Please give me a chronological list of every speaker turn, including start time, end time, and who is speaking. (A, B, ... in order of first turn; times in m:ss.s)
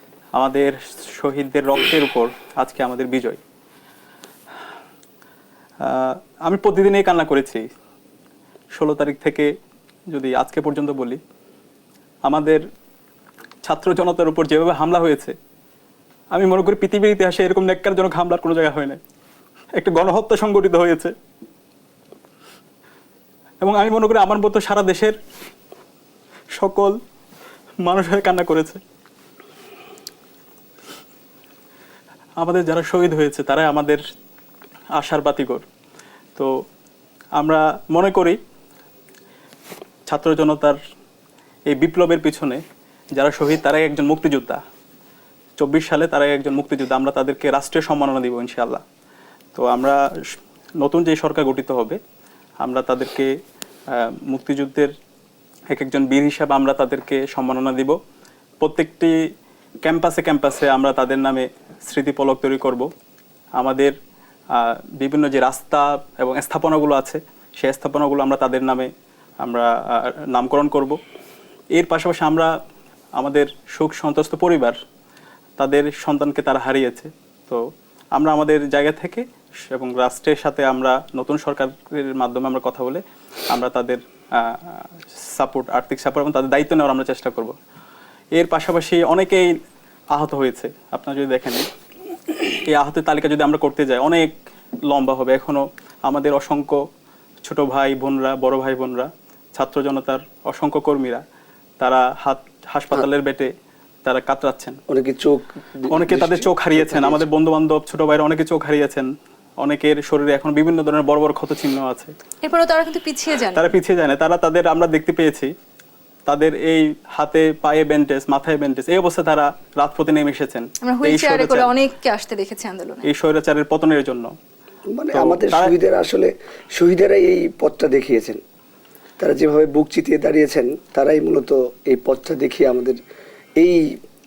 0:00.4-0:03.4 A
0:05.8-0:07.6 A
0:08.8-0:09.5 A
0:10.1-0:11.2 A
0:12.3-0:12.6 A
0:13.6-0:15.3 A
0:16.3-0:19.0 A
0:19.8-0:21.1 A
0:23.6-0:25.2 A
0:26.6-0:27.0 A
0:27.8-0:28.8 A
0:32.4-0:34.0 A
0:35.0-0:35.6 A
0:37.4-0:38.4 A
0:40.1-0:40.8 A
0:41.7-0:42.6 A
0:43.2-0:44.6 A
0:45.6-0:48.8 A
0:49.5-0:50.0 A
0:50.8-0:52.0 A
0:52.6-0:53.3 A
0:53.9-0:54.9 A
0:55.7-0:58.0 A
0:58.6-0:59.2 A
0:59.8-1:02.9 A
1:03.6-1:04.0 A
1:04.5-1:08.9 A
1:09.4-1:11.0 A
1:11.8-1:12.5 A
1:13.2-1:14.8 A
1:15.6-1:17.6 A
1:18.2-1:27.5 A
1:28.4-1:29.6 A
1:30.1-1:31.7 A
1:32.7-1:34.3 A
1:34.9-1:36.8 A
1:37.4-1:41.2 A
1:41.8-1:43.5 A
1:44.0-1:44.8 A
1:44.9-1:47.2 B
1:45.9-1:49.1 A
1:49.6-1:52.2 A
1:52.4-1:53.7 C
1:53.5-1:55.5 A
1:56.3-2:01.7 A
2:00.8-2:03.1 C
2:03.0-2:04.3 A
2:04.9-2:08.4 B
2:05.1-2:05.7 A
2:09.2-2:13.0 B
2:13.6-2:14.0 B